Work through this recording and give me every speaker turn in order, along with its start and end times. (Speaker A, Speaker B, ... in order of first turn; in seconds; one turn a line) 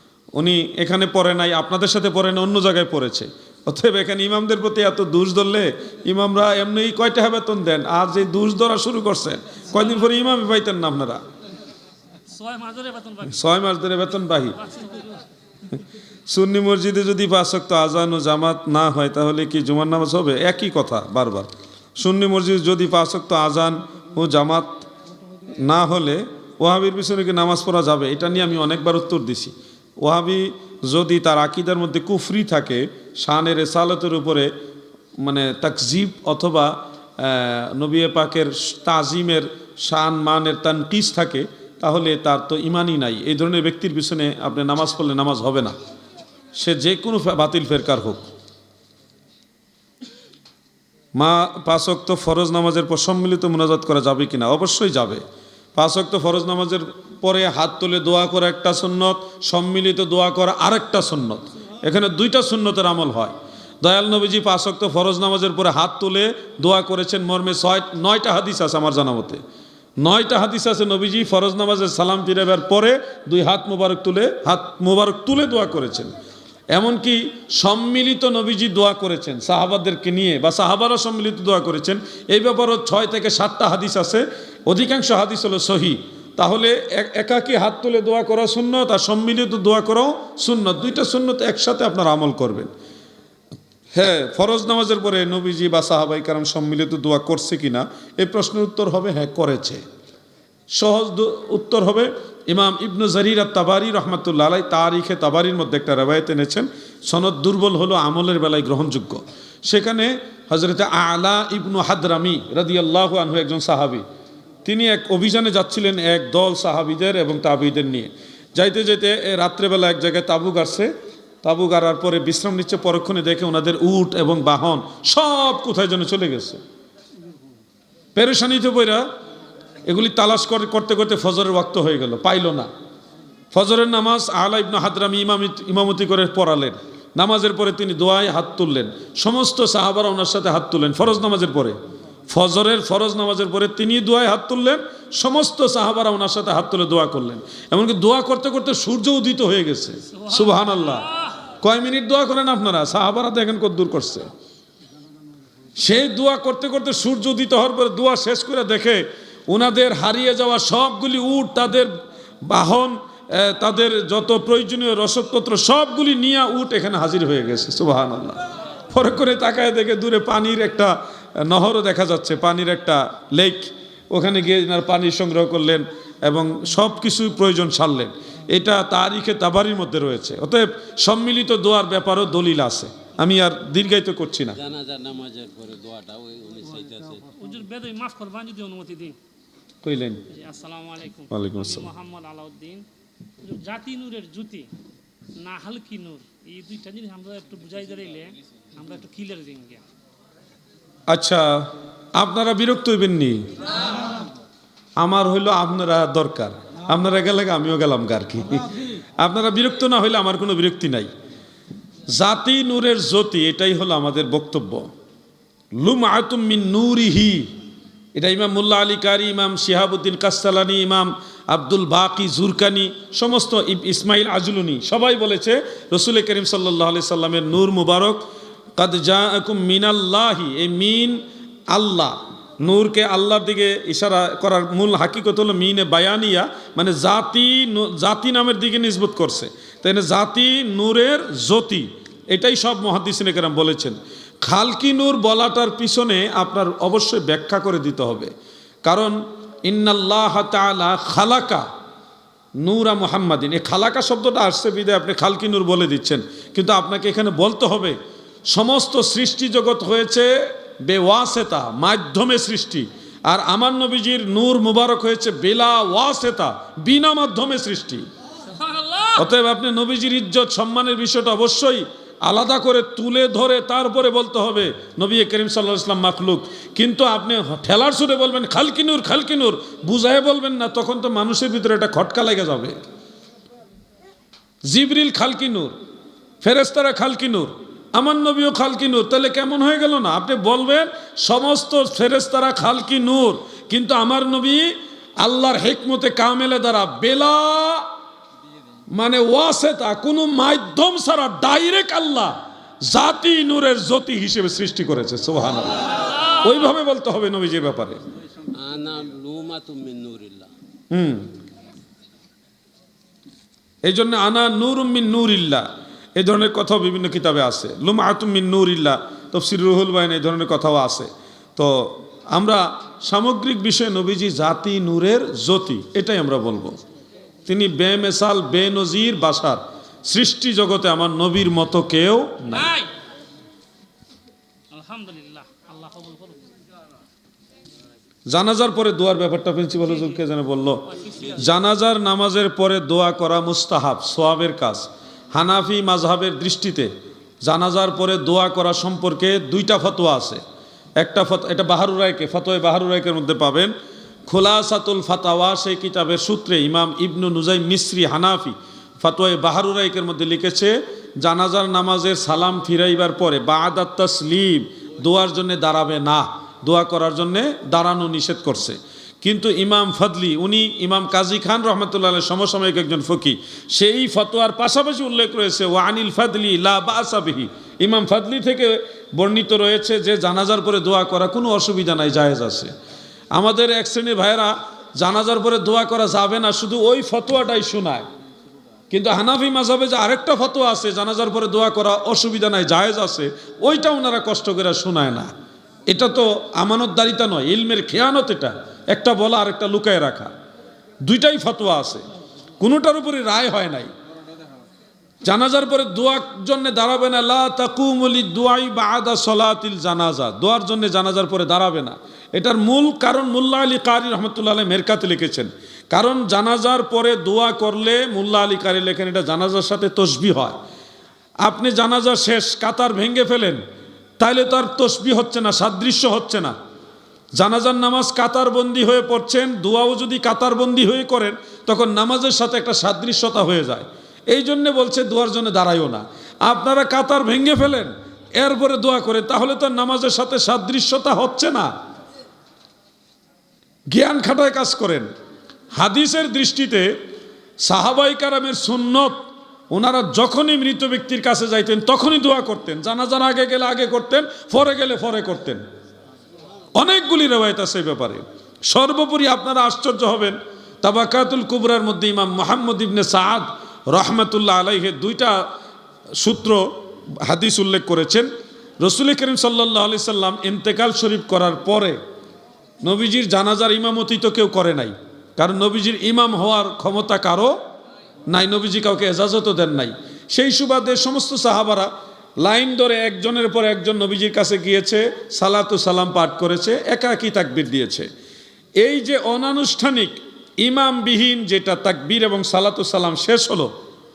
Speaker A: 0.3-11.2
Speaker B: 12.3-13.4
Speaker A: 13.2-14.6
Speaker B: 14.6-15.2
Speaker A: 16.3-24.9
Speaker A: 25.6-34.5
Speaker A: 35.2-45.8
Speaker A: 46.5-48.2
Speaker A: 51.2-55.2
Speaker A: 55.8-69.4
Speaker A: 70.0-76.1
Speaker A: 76.7-92.7
Speaker A: 93.9-99.8
Speaker A: 100.7-114.0
Speaker A: 114.7-120.9
Speaker A: 121.4-126.6
Speaker A: 128.2-129.1
Speaker A: 129.9-132.7
Speaker A: 133.5-141.8
Speaker A: 142.3-154.3
Speaker B: 150.3-151.0
Speaker A: 155.8-161.9
Speaker A: 162.4-184.6
Speaker C: 184.6-187.3
Speaker B: 187.4-189.2
Speaker A: 189.8-190.3
Speaker B: 190.3-192.9
Speaker A: 191.3-191.9
Speaker B: 193.4-194.7
Speaker B: 195.4-199.8
Speaker A: 201.1-203.5
Speaker A: 205.0-211.1
Speaker A: 212.1-214.9
Speaker A: 215.8-217.5
Speaker A: 218.2-228.2
Speaker A: 228.8-248.3
Speaker A: 248.8-251.7
Speaker A: 252.6-258.0
Speaker A: 258.5-268.1
Speaker B: 268.6-269.2
Speaker A: 269.2-282.8
Speaker A: 284.7-285.8
Speaker A: 286.4-297.9
Speaker A: 298.9-308.0
Speaker C: 308.5-310.5
Speaker A: 310.9-311.3
Speaker A: 313.8-326.8
Speaker A: 327.5-332.8
Speaker B: 332.6-332.9
Speaker B: 334.7-336.5
Speaker A: 338.3-346.9
Speaker A: 347.4-350.4
Speaker A: 351.0-353.7
Speaker A: 354.3-382.7
Speaker A: 383.3-388.1
Speaker A: 388.9-395.3
Speaker A: 395.9-400.3
Speaker A: 401.0-402.0
Speaker A: 402.6-403.9
Speaker A: 405.2-420.6
Speaker A: 421.4-423.6
Speaker A: 424.2-426.5
Speaker A: 427.4-441.7
Speaker A: 443.9-445.1
Speaker A: 445.7-446.9
Speaker A: 447.6-455.6
Speaker A: 456.8-465.4
Speaker A: 466.2-466.7
Speaker A: 467.2-468.3
Speaker A: 468.8-472.0
Speaker A: 472.8-477.6
Speaker A: 478.3-481.9
Speaker A: 482.4-488.1
Speaker A: 488.8-493.7